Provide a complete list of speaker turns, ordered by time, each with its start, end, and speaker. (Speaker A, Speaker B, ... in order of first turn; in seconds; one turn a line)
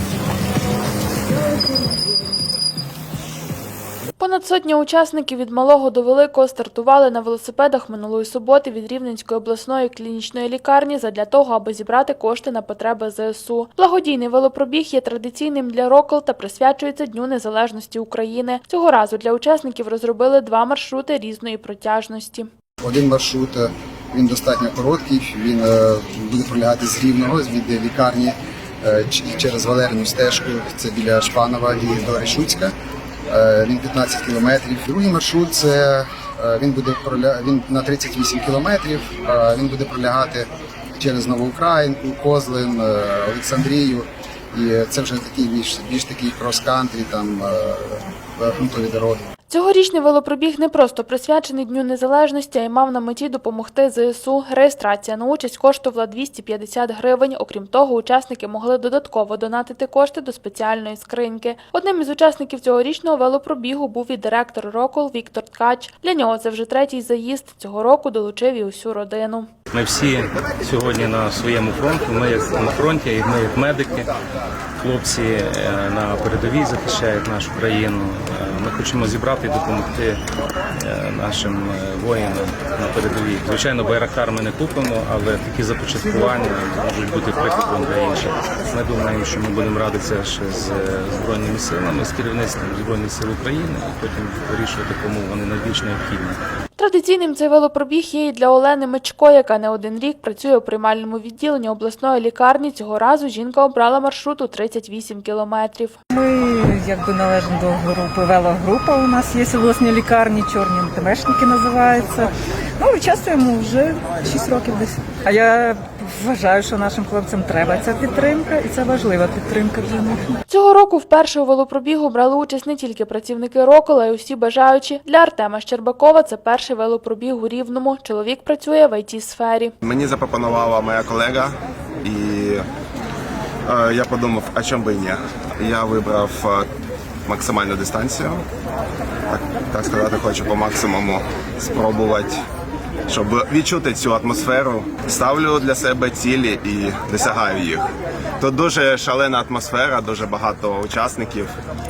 Speaker A: 4.2-22.5
Speaker B: 22.8-32.7
Speaker B: 33.3-49.2
Speaker A: 49.5-69.5
Speaker C: 69.7-74.1
Speaker C: 74.8-80.2
Speaker C: 80.8-96.4
Speaker A: 96.8-106.0
Speaker D: 106.2-120.3
Speaker A: 120.5-129.7
Speaker E: 129.8-132.7
Speaker E: 133.7-136.7
Speaker E: 137.3-138.4
Speaker E: 139.3-142.4
Speaker E: 143.1-147.8
Speaker E: 148.4-151.5